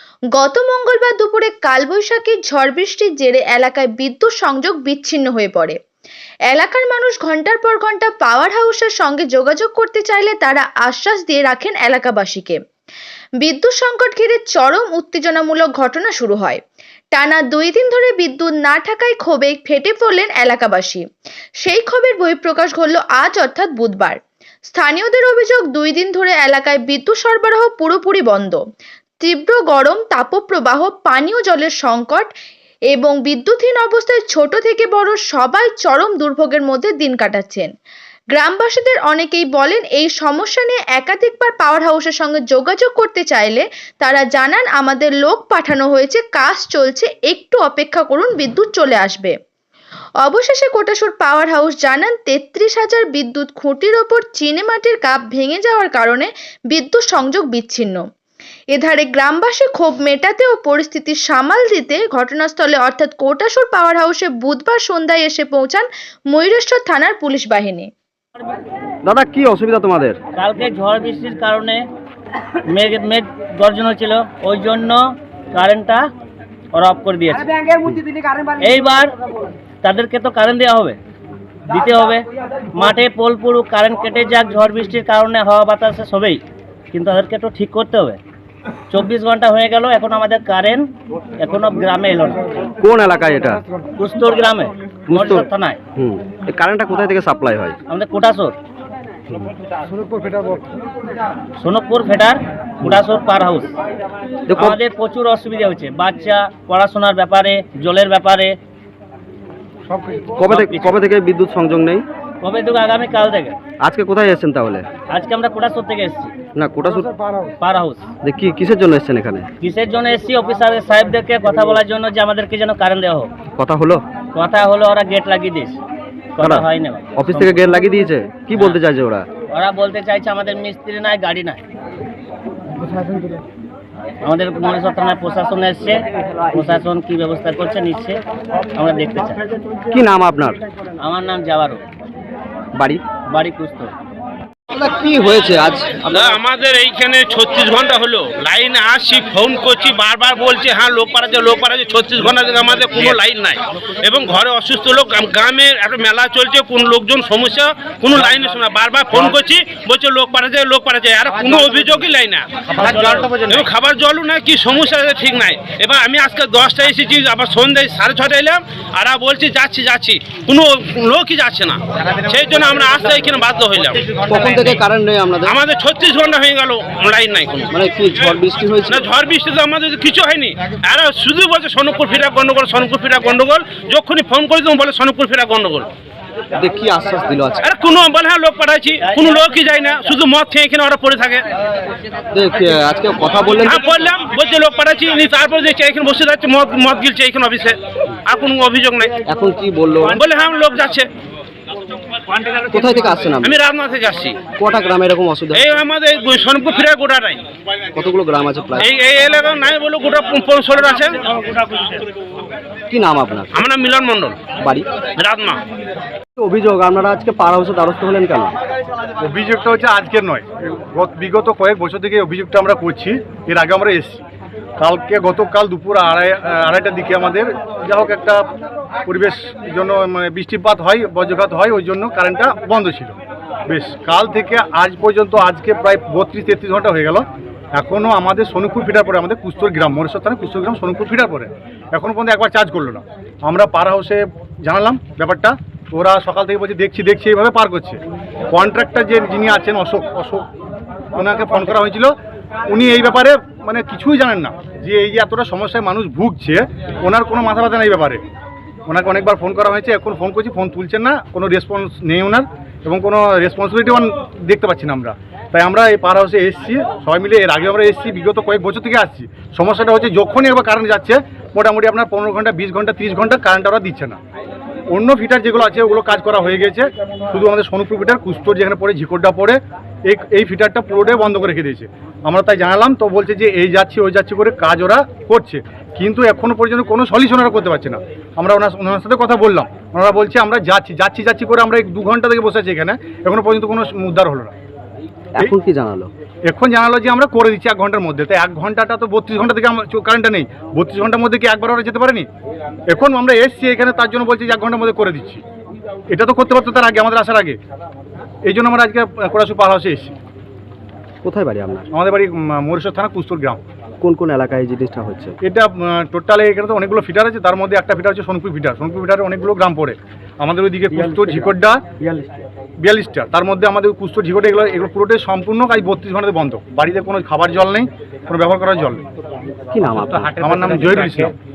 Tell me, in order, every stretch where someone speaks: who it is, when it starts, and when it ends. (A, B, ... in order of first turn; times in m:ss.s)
0:00.4-0:05.8 A
0:06.5-0:12.6 A
0:13.4-0:16.6 A
0:17.2-0:21.0 A
0:21.6-0:24.2 A
0:24.7-0:28.6 A
0:29.2-0:32.3 A
0:32.9-0:37.7 A
0:38.3-0:49.4 A
0:50.2-0:58.0 A
0:58.7-1:07.9 A
1:09.0-1:10.2 B
1:10.4-1:11.8 C
1:12.7-1:16.1 C
1:16.7-1:17.7 C
1:18.6-1:19.1 C
1:19.8-1:21.0 C
1:21.7-1:28.2 C
1:28.9-1:30.9 C
1:31.4-1:32.4 C
1:32.8-1:33.6 B
1:34.0-1:35.8 C
1:35.1-1:35.4 B
1:36.0-1:37.8 B
1:37.9-1:38.6 C
1:41.6-1:43.7 C
1:44.5-1:44.8 B
1:44.6-1:48.6 C
1:50.4-1:52.0 B
1:50.5-1:51.0 C
1:52.4-1:53.6 C
1:53.8-1:54.9 B
1:55.1-1:56.3 C
1:56.6-1:57.1 B
1:57.6-1:58.1 C
1:58.2-1:59.5 B
1:59.6-2:03.3 C
2:03.6-2:04.0 B
2:04.3-2:05.8 C
2:06.4-2:07.5 C
2:06.4-2:06.6 B
2:07.2-2:09.3 B
2:09.5-2:11.6 C
2:14.2-2:18.2 C
2:18.8-2:19.4 C
2:19.9-2:20.6 B
2:21.0-2:21.8 C
2:22.7-2:23.0 B
2:23.3-2:23.9 C
2:24.7-2:26.4 B
2:26.1-2:54.3 D
2:54.3-2:55.6 B
2:55.4-2:57.8 D
2:57.7-2:59.1 B
2:58.9-3:05.9 D
3:06.6-3:07.7 B
3:07.6-3:11.5 D
3:12.3-3:13.8 B
3:13.7-3:19.2 D
3:19.3-3:20.2 B
3:20.1-3:21.1 D
3:22.7-3:23.6 B
3:23.4-3:24.4 D
3:24.6-3:25.6 B
3:25.5-3:27.4 D
3:28.0-3:28.9 B
3:28.8-3:31.3 D
3:32.9-3:33.6 B
3:33.5-3:34.4 D
3:34.6-3:34.9 B
3:35.2-3:35.6 D
3:36.4-3:38.6 B
3:39.2-3:44.2 E
3:44.8-3:48.4 E
3:49.1-3:53.2 E
3:53.7-4:08.0 E
4:08.5-4:10.5 E
4:11.1-4:12.2 E
4:12.7-4:18.2 E
4:18.9-4:34.2 E
4:34.9-4:54.5 E
4:55.4-4:56.1 B
4:56.5-5:02.3 E
5:02.9-5:05.4 E
5:06.1-5:07.6 E
5:08.4-5:10.2 E
5:11.2-5:11.9 B
5:11.9-5:13.6 E
5:14.0-5:15.4 B
5:15.4-5:21.8 E
5:22.8-5:29.0 E
5:29.7-5:30.4 B
5:30.4-5:31.4 E